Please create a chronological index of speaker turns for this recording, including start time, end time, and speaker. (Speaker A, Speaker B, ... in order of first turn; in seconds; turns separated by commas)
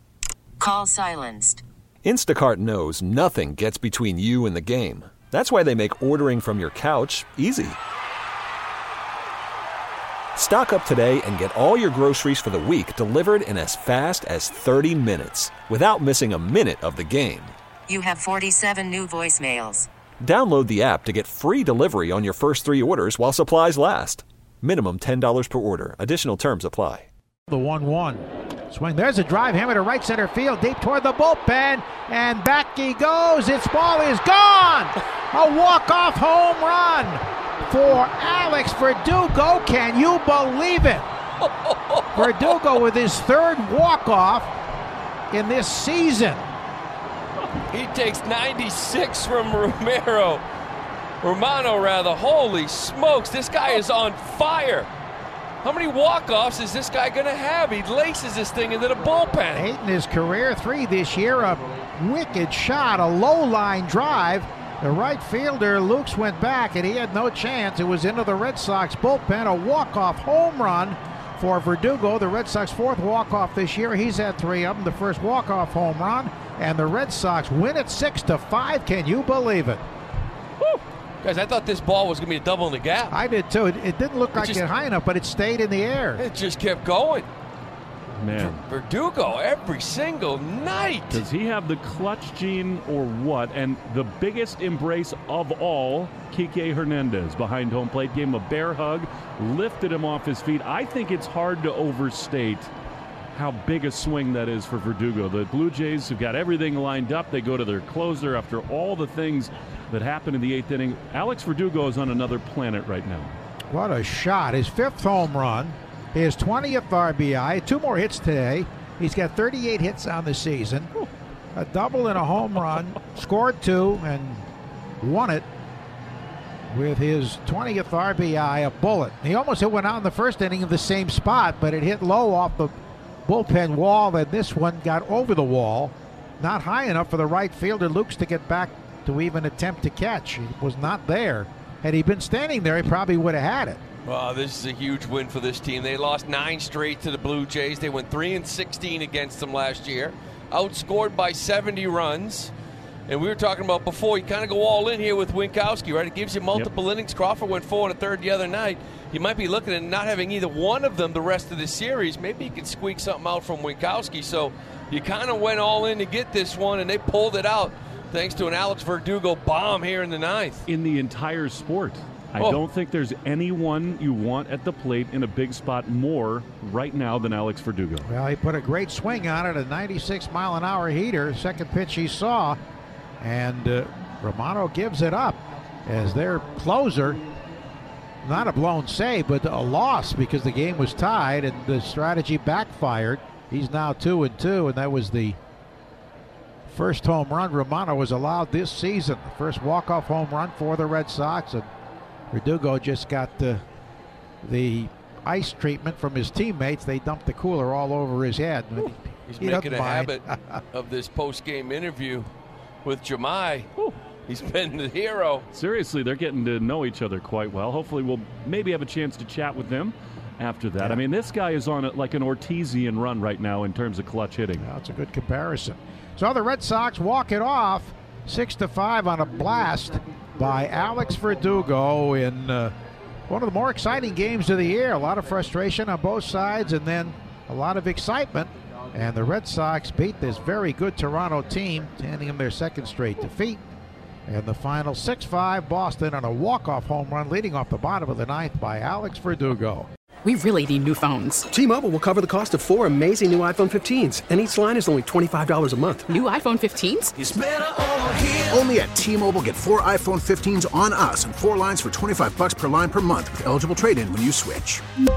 Speaker A: 0.6-1.6, Speaker B: 2.0-7.8, Speaker B: 10.4-17.6, Speaker A: 17.9-19.9, Speaker B: 20.2-27.1, Speaker C: 27.5-41.0, Speaker D: 41.7-42.0, Speaker C: 42.1-44.5, Speaker C: 45.3-46.5, Speaker D: 47.7-50.4, Speaker D: 51.2-54.9, Speaker D: 55.6-59.7, Speaker C: 59.5-79.8, Speaker D: 80.6-83.1, Speaker C: 83.1-86.2, Speaker D: 84.4-84.6, Speaker D: 86.2-87.3, Speaker E: 88.2-88.6, Speaker D: 88.3-91.2, Speaker E: 91.1-102.7, Speaker E: 103.3-113.3, Speaker C: 113.7-120.9, Speaker C: 121.5-124.5, Speaker C: 125.0-125.5, Speaker C: 126.7-132.7, Speaker C: 133.2-143.8, Speaker D: 144.1-152.5, Speaker D: 153.1-170.6, Speaker E: 170.7-178.1, Speaker C: 178.1-182.6, Speaker C: 183.2-187.2, Speaker C: 188.2-195.4, Speaker C: 196.7-201.7, Speaker C: 202.3-203.6, Speaker C: 204.4-210.6, Speaker D: 209.3-212.3, Speaker D: 212.8-213.7, Speaker D: 214.3-215.4, Speaker E: 215.5-224.7, Speaker C: 224.6-232.7, Speaker C: 233.3-243.6, Speaker C: 244.3-249.9, Speaker F: 250.2-251.4, Speaker G: 251.5-256.1, Speaker F: 256.1-257.1, Speaker H: 257.2-264.8